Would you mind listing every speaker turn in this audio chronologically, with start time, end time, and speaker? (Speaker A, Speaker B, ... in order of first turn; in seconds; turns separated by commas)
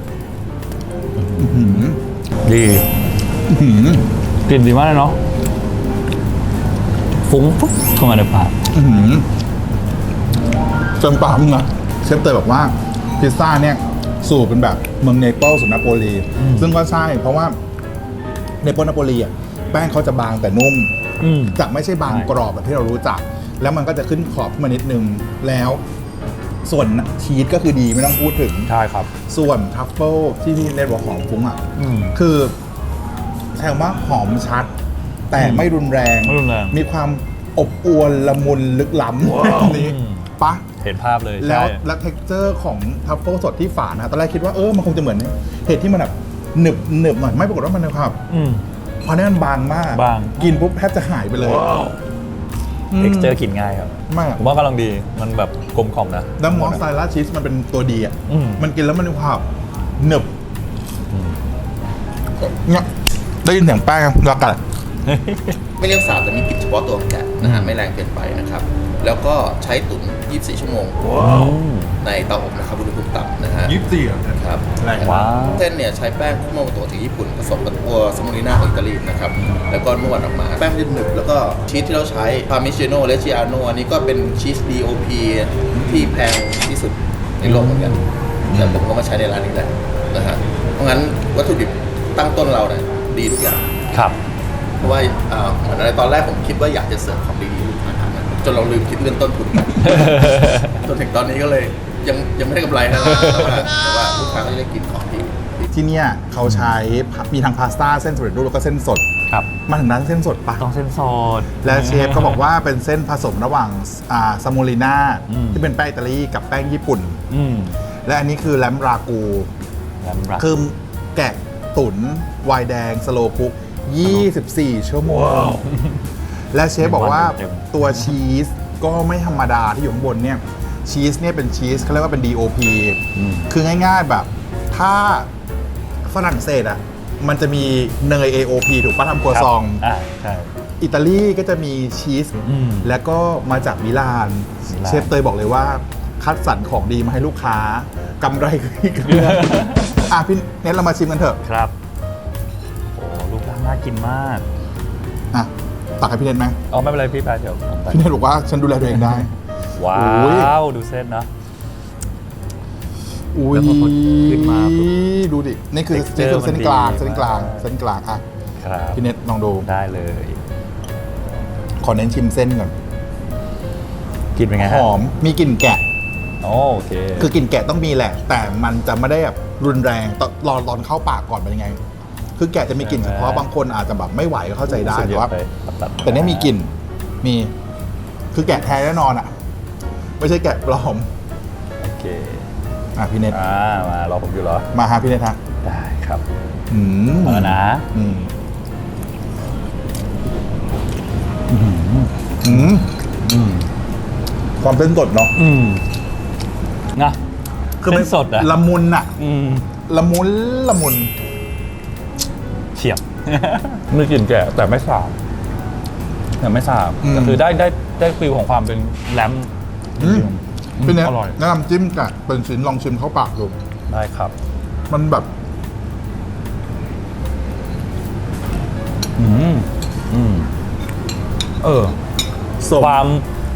Speaker A: 1.2-1.8, Speaker B: 1.3-2.0, Speaker A: 2.4-2.9, Speaker B: 3.5-4.0, Speaker A: 4.5-5.2, Speaker A: 7.2-8.6, Speaker B: 8.7-9.2, Speaker B: 11.0-17.6, Speaker A: 16.4-16.7, Speaker B: 18.6-20.9, Speaker A: 21.2-22.3, Speaker B: 21.5-25.8, Speaker B: 26.6-28.7, Speaker A: 28.7-29.1, Speaker B: 29.2-32.5, Speaker A: 31.8-32.2, Speaker B: 33.5-34.7, Speaker B: 35.3-40.7, Speaker A: 35.4-35.7, Speaker A: 36.2-36.8, Speaker A: 39.4-40.3, Speaker A: 40.8-41.8, Speaker B: 41.4-48.2, Speaker A: 48.3-48.6, Speaker B: 49.0-51.7, Speaker A: 49.9-50.7, Speaker B: 52.9-53.4, Speaker A: 53.0-56.8, Speaker B: 54.1-54.4, Speaker B: 56.4-59.5, Speaker A: 58.3-58.6, Speaker B: 60.0-60.3, Speaker A: 61.1-61.4, Speaker B: 62.5-62.9, Speaker B: 63.4-64.6, Speaker A: 65.0-65.6, Speaker C: 65.8-71.2, Speaker A: 67.4-67.8, Speaker A: 71.2-72.0, Speaker C: 72.0-73.8, Speaker B: 73.6-75.3, Speaker C: 74.4-93.7, Speaker A: 75.0-75.7, Speaker A: 79.4-79.7, Speaker A: 87.4-88.8, Speaker A: 93.9-94.2, Speaker C: 94.8-105.7, Speaker A: 99.8-100.8, Speaker A: 103.0-103.6, Speaker B: 105.7-109.1, Speaker A: 106.5-106.7, Speaker B: 109.7-110.6, Speaker A: 110.6-112.4, Speaker B: 111.6-117.2, Speaker A: 115.3-115.6, Speaker A: 117.3-117.8, Speaker B: 118.0-119.5, Speaker A: 120.0-120.5, Speaker B: 120.4-125.7, Speaker B: 126.5-135.3, Speaker A: 126.8-128.2, Speaker A: 133.1-133.5, Speaker B: 136.1-139.8, Speaker A: 139.3-140.5, Speaker B: 140.8-151.4, Speaker A: 142.4-142.9, Speaker A: 144.7-145.1, Speaker A: 149.0-150.0, Speaker A: 151.4-151.7, Speaker A: 152.9-154.5, Speaker B: 155.3-156.6, Speaker A: 156.7-158.1, Speaker B: 157.9-159.3, Speaker A: 158.9-161.3, Speaker B: 159.9-160.5, Speaker B: 163.3-168.2, Speaker A: 163.5-164.9, Speaker A: 165.9-167.7, Speaker A: 168.6-169.0, Speaker B: 168.9-169.7, Speaker A: 169.6-170.4, Speaker B: 171.8-172.7, Speaker A: 174.3-174.9, Speaker B: 174.6-175.8, Speaker A: 176.4-177.3, Speaker B: 177.2-181.8, Speaker B: 182.4-185.3, Speaker A: 182.8-183.5, Speaker A: 184.7-186.5, Speaker B: 186.0-187.5, Speaker B: 188.3-189.3, Speaker B: 190.2-191.1, Speaker A: 191.8-192.5, Speaker B: 193.0-193.4, Speaker A: 193.3-194.7, Speaker B: 194.7-195.4, Speaker A: 195.6-196.2, Speaker B: 196.7-198.3, Speaker A: 197.2-197.9, Speaker A: 201.5-203.7, Speaker B: 202.4-202.9, Speaker B: 204.6-205.3, Speaker A: 205.3-205.8, Speaker B: 207.8-209.1, Speaker A: 207.8-208.5, Speaker A: 209.2-209.7, Speaker B: 209.9-211.1, Speaker A: 212.7-215.1, Speaker B: 213.9-214.6, Speaker A: 216.4-221.4, Speaker B: 217.0-217.4, Speaker B: 220.0-220.3, Speaker B: 220.8-223.6, Speaker A: 223.9-224.3, Speaker B: 224.9-225.3, Speaker A: 229.2-230.5, Speaker A: 231.6-232.0, Speaker B: 232.6-233.0, Speaker A: 232.8-233.2